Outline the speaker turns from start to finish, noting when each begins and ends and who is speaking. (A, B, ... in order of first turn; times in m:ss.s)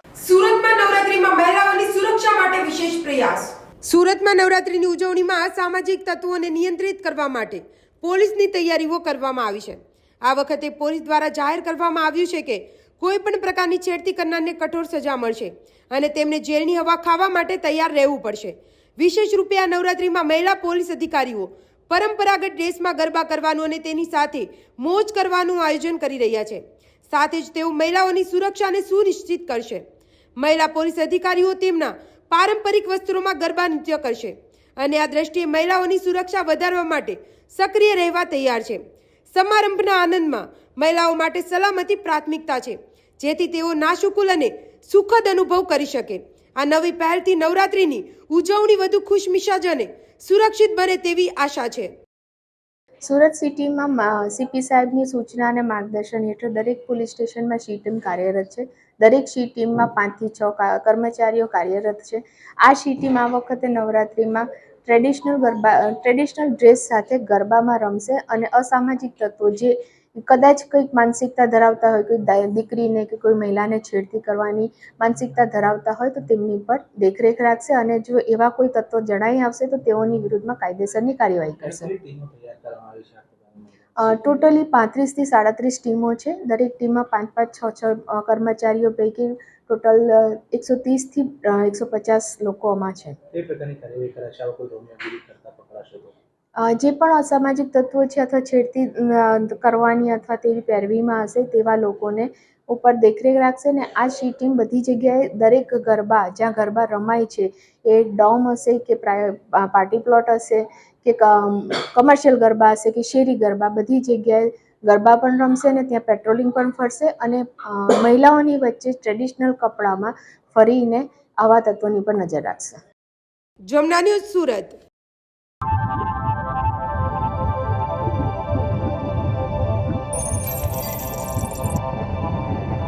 0:00.2-0:29.8 A
0:30.4-0:38.8 A
0:39.3-0:51.9 A
0:53.0-1:21.9 B
1:21.6-1:24.4 C
1:24.0-1:33.2 B
1:33.3-1:36.2 C
1:36.6-2:02.8 B
2:03.7-2:04.8 A